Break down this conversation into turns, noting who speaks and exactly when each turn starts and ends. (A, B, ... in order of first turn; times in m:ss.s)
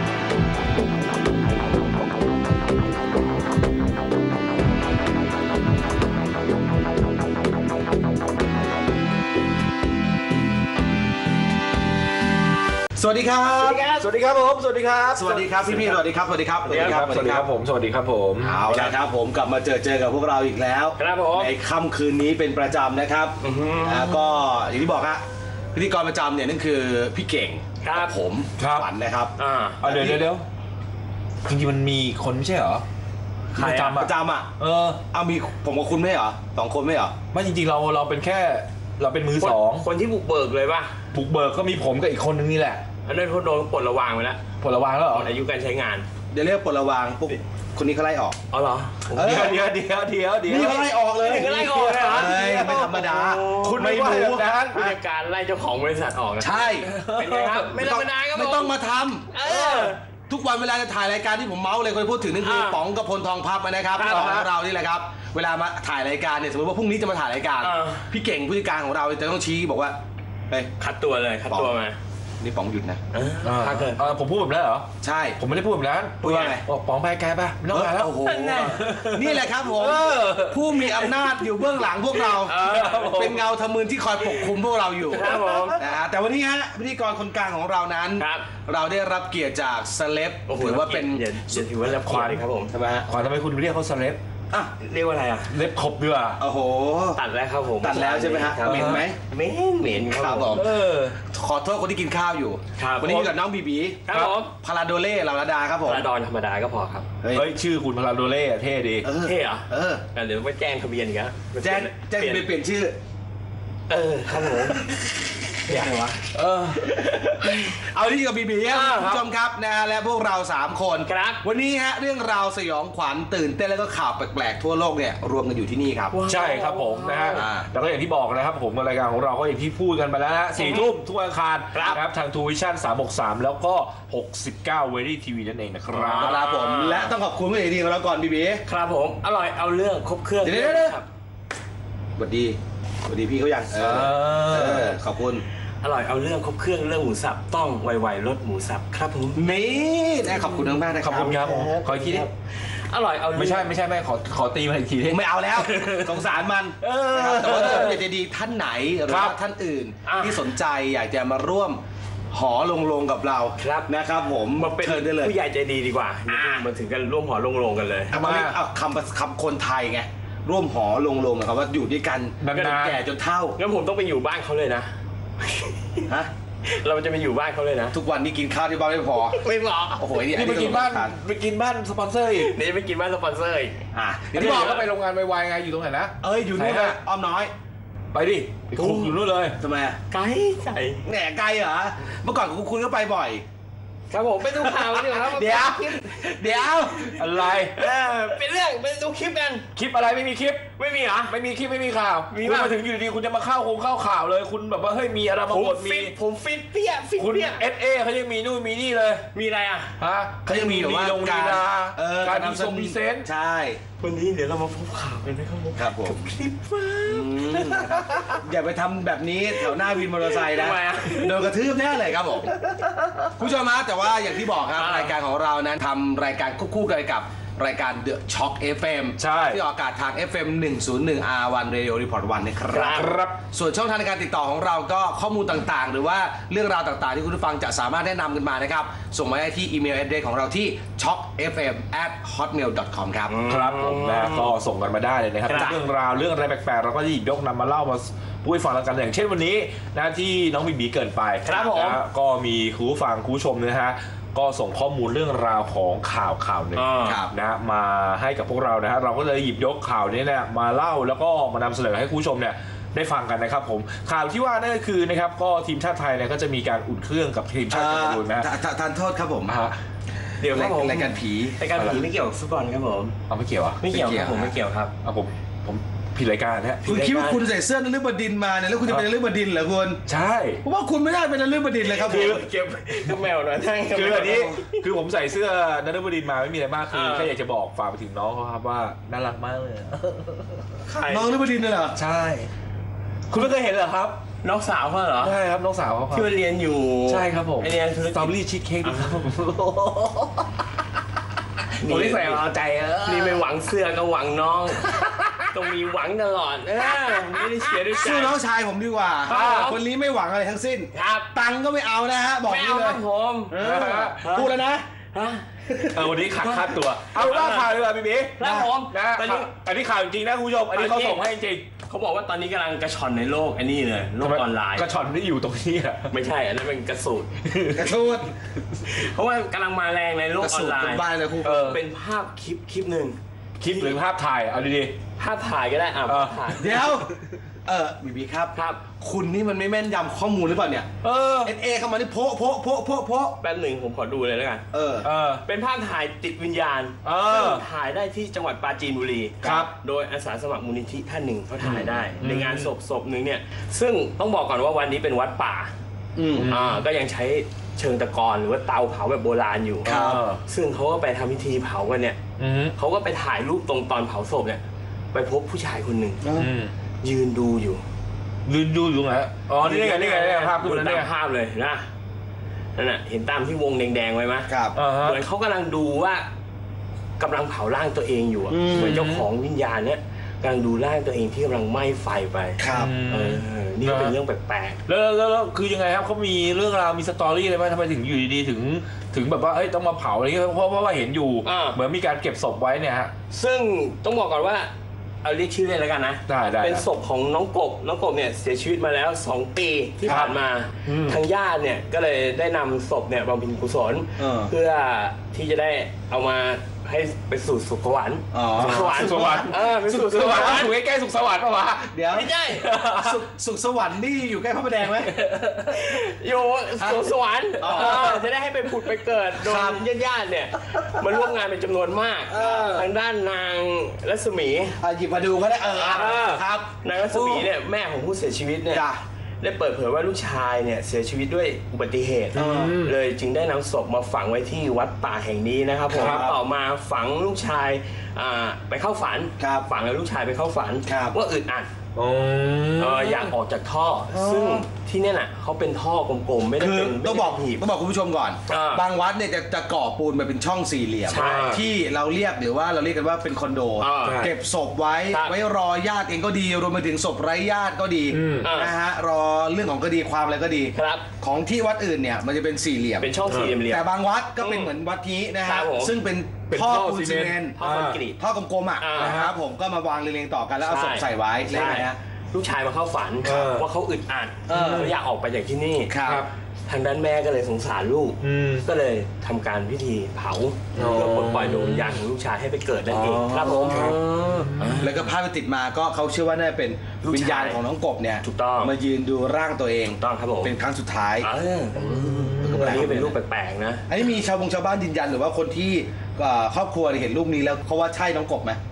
0:13.0-0:14.0 A
0:13.6-0:14.0 B
0:14.0-0:15.9 C
0:15.1-0:17.5 A
0:16.6-0:18.7 C
0:16.6-0:17.0 B
0:18.4-0:25.2 A
0:18.7-0:19.0 B
0:21.0-0:21.5 B
0:23.4-0:24.4 B
0:25.7-0:30.2 A
0:27.8-0:28.2 B
0:28.6-0:28.9 C
0:29.4-0:29.8 B
0:29.8-0:30.4 C
0:31.4-0:32.8 C
0:33.5-0:35.0 C
0:33.5-0:34.0 B
0:33.9-0:34.5 A
0:35.1-0:37.1 A
0:37.3-0:39.8 C
0:39.4-0:41.0 B
0:41.1-0:42.8 C
0:43.0-0:44.5 B
0:44.6-0:45.3 C
0:45.1-0:46.0 B
0:46.3-0:48.4 A
0:48.5-0:49.6 B
0:49.1-0:49.7 A
0:49.2-0:53.0 C
0:50.4-0:54.9 A
0:50.5-0:53.9 B
0:53.6-0:54.9 C
0:54.7-0:58.8 B
0:56.4-0:57.0 A
0:56.9-0:57.7 C
0:57.7-1:10.0 A
0:59.3-1:00.0 B
1:02.4-1:02.8 B
1:03.9-1:04.4 B
1:04.0-1:04.5 C
1:07.6-1:08.0 B
1:10.8-1:12.0 B
1:12.4-1:13.0 A
1:13.1-1:14.1 B
1:13.4-1:21.1 C
1:15.0-1:15.4 A
1:16.2-1:16.6 A
1:17.7-1:31.6 A
1:18.2-1:18.9 B
1:22.1-1:23.3 B
1:22.4-1:23.4 C
1:25.1-1:25.8 B
1:28.2-1:28.4 B
1:30.5-1:32.7 B
1:32.0-1:32.4 C
1:32.7-1:33.1 A
1:33.1-1:34.2 C
1:34.8-1:35.5 B
1:35.5-1:36.4 C
1:36.4-1:37.2 A
1:37.1-1:40.7 B
1:37.8-1:39.2 A
1:38.6-1:39.0 C
1:39.9-1:40.7 A
1:40.5-1:41.2 C
1:41.2-1:44.0 A
1:42.8-1:43.3 B
1:43.0-1:43.3 C
1:44.0-1:44.5 B
1:44.1-1:44.4 C
1:44.6-1:46.1 A
1:45.8-1:47.1 B
1:47.2-1:47.5 A
1:47.3-1:49.1 C
1:49.0-1:50.0 A
1:49.2-1:52.5 B
1:51.6-1:53.0 A
1:53.9-1:54.9 B
1:55.6-1:56.2 B
1:56.3-1:57.1 C
1:56.8-1:57.7 B
1:57.6-2:06.2 A
1:58.6-1:59.2 B
2:01.0-2:01.4 B
2:06.1-2:07.5 B
2:06.2-2:16.4 C
2:07.3-2:07.7 A
2:10.6-2:10.9 B
2:11.7-2:12.0 B
2:15.9-2:17.1 B
2:16.2-2:18.6 A
2:18.6-2:21.0 B
2:20.4-2:21.0 A
2:22.2-2:25.4 A
2:23.7-2:24.9 C
2:25.8-2:29.4 B
2:29.3-2:31.8 A
2:30.4-2:30.6 B
2:31.0-2:32.2 C
2:31.2-2:33.7 B
2:33.3-2:35.3 C
2:35.1-2:45.3 A
2:35.6-2:36.2 B
2:36.8-2:38.0 B
2:37.1-2:38.0 C
2:39.0-2:39.4 C
2:40.0-2:40.5 B
2:43.6-2:43.9 B
2:44.5-2:48.1 B
2:46.3-2:46.7 A
2:48.1-2:53.6 A
2:48.1-2:48.6 C
2:52.4-2:53.0 C
2:53.6-2:54.9 B
2:55.4-2:56.0 B
2:56.6-2:58.0 B
2:57.9-2:59.4 A
2:59.3-3:00.1 B
3:00.0-3:01.1 A
3:00.3-3:02.5 C
3:02.4-3:03.8 B
3:03.9-3:04.8 A
3:04.3-3:07.0 C
3:04.3-3:04.8 B
3:06.2-3:07.5 A
3:08.1-3:09.6 C
3:08.8-3:09.2 B
3:09.6-3:10.0 A
3:10.1-3:11.0 B
3:11.0-3:13.4 A
3:14.1-3:19.7 B
3:14.5-3:17.2 A
3:17.2-3:17.8 C
3:19.7-3:20.7 C
3:20.8-3:21.4 B
3:21.3-3:26.1 C
3:22.3-3:22.9 B
3:25.5-3:27.6 B
3:27.2-3:29.2 C
3:29.3-3:29.9 B
3:30.0-3:33.3 C
3:30.4-3:33.8 A
3:34.0-3:38.4 B
3:35.8-3:36.3 A
3:37.0-3:42.5 A
3:39.6-3:41.6 B
3:43.4-4:03.4 A
3:44.7-3:45.1 B
3:49.2-3:49.6 C
3:52.7-3:53.2 B
3:52.9-3:53.4 C
4:03.3-4:04.5 B
4:03.4-4:28.5 C
4:05.5-4:05.8 B
4:11.4-4:12.0 B
4:16.7-4:17.2 B
4:17.0-4:17.3 A
4:27.7-4:29.6 A
4:29.4-4:29.8 C
4:30.4-4:33.2 B
4:30.4-4:31.6 A
4:31.7-4:32.0 C
4:33.3-4:34.1 C
4:33.8-4:34.9 B
4:33.9-4:34.5 A
4:35.0-4:36.9 C
4:36.8-4:37.5 B
4:36.8-4:40.0 A
4:40.0-4:40.6 C
4:40.6-4:42.4 A
4:41.8-4:44.8 B
4:42.1-4:42.4 C
4:43.9-4:51.3 C
4:46.9-4:47.3 B
4:51.0-4:52.0 A
4:51.9-4:52.5 C
4:53.3-4:54.2 C
4:54.4-4:55.4 B
4:55.2-4:56.3 C
4:56.1-4:59.3 B
4:57.0-5:00.5 C
5:01.8-5:03.4 C
5:01.8-5:02.4 B
5:03.0-5:04.9 B
5:04.8-5:05.5 C
5:05.5-5:08.4 B
5:06.8-5:08.0 C
5:08.0-5:14.8 A
5:09.2-5:09.8 B
5:09.3-5:09.7 C
5:10.9-5:11.3 B
5:12.4-5:14.6 B
5:13.5-5:14.2 C
5:15.1-5:15.4 B
5:15.7-5:16.0 A
5:15.9-5:21.7 C
5:16.4-5:17.7 B
5:18.4-5:19.5 B
5:18.4-5:18.7 A
5:20.7-5:21.2 B
5:21.9-5:24.9 B
5:24.2-5:26.1 C
5:26.1-5:27.6 B
5:27.7-5:28.3 A
5:28.9-5:34.0 B
5:30.4-5:31.8 A
5:31.4-5:31.8 C
5:33.6-5:35.0 C
5:35.2-5:36.9 B
5:36.0-5:36.8 C
5:36.6-5:37.1 A
5:37.6-5:43.4 A
5:38.5-5:38.8 B
5:41.0-5:41.5 C
5:43.4-5:44.6 B
5:44.7-5:45.1 A
5:45.0-5:45.4 C
5:45.4-5:55.7 B
5:47.0-5:47.6 C
5:49.4-5:49.7 A
5:49.4-5:49.7 C
5:51.6-5:52.1 A
5:52.2-5:52.7 C
5:56.2-5:56.5 A
5:56.3-5:56.9 C
5:56.4-6:02.2 B
5:59.8-6:00.4 C
5:59.8-6:00.2 A
6:02.4-6:02.8 C
6:02.8-6:04.6 B
6:05.1-6:06.2 B
6:06.2-6:06.5 A
6:06.4-6:06.7 C
6:07.0-6:07.8 B
6:08.4-6:11.1 C
6:09.6-6:11.8 B
6:12.8-6:14.5 B
6:14.5-6:14.8 A
6:14.7-6:15.2 C
6:15.0-6:16.2 B
6:17.2-6:24.8 B
6:18.5-6:19.0 A
6:18.7-6:19.3 C
6:22.6-6:22.9 A
6:22.7-6:24.2 C
6:24.9-6:33.1 C
6:31.4-6:31.8 B
6:33.3-6:34.7 B
6:35.2-6:50.7 B
6:36.3-6:36.8 C
6:40.0-6:41.2 C
6:44.2-6:44.5 A
6:48.3-6:50.7 A
6:48.6-6:52.0 C
6:51.9-6:55.2 A
6:52.1-6:52.8 B
6:52.7-6:53.2 C
6:55.0-6:55.9 C
6:55.7-7:04.8 B
6:56.8-6:57.1 A
6:57.6-6:58.2 A
6:57.6-6:58.2 C
6:59.4-6:59.8 A
7:02.3-7:02.8 A
7:04.8-7:07.5 A
7:05.8-7:08.9 B
7:05.8-7:06.4 C
7:08.7-7:09.0 A
7:09.4-7:21.7 B
7:12.3-7:12.7 A
7:12.3-7:13.0 C
7:15.9-7:16.4 A
7:15.9-7:16.3 C
7:19.4-7:19.6 A
7:20.9-7:21.2 A
7:22.0-7:23.3 C
7:22.8-7:27.6 B
7:24.1-7:24.6 A
7:26.6-7:47.6 A
7:28.5-7:28.8 B
7:31.1-7:31.6 B
7:31.1-7:31.6 C
7:33.8-7:34.3 B
7:34.0-7:34.3 C
7:35.1-7:35.4 B
7:38.1-7:38.5 C
7:38.4-7:38.7 B
7:40.7-7:41.0 B
7:43.0-7:43.9 B
7:43.3-7:43.6 C
7:44.4-7:44.7 B
7:45.4-7:46.0 B
7:46.5-7:48.0 C
7:47.6-7:48.2 B
7:48.1-7:52.0 A
7:48.8-7:49.2 B
7:49.0-7:49.4 C
7:50.6-7:55.9 B
7:53.2-7:53.7 C
7:54.5-7:54.9 A
7:54.5-7:54.9 C
7:55.9-7:56.2 A
7:56.0-7:56.3 C
7:56.7-8:05.1 B
7:58.2-7:58.6 C
8:00.8-8:02.0 C
8:02.9-8:11.3 A
8:03.0-8:05.0 C
8:07.0-8:07.6 B
8:08.2-8:08.7 B
8:10.0-8:10.5 B
8:11.2-8:13.8 B
8:11.8-8:13.2 A
8:11.9-8:12.8 C
8:13.9-8:18.6 A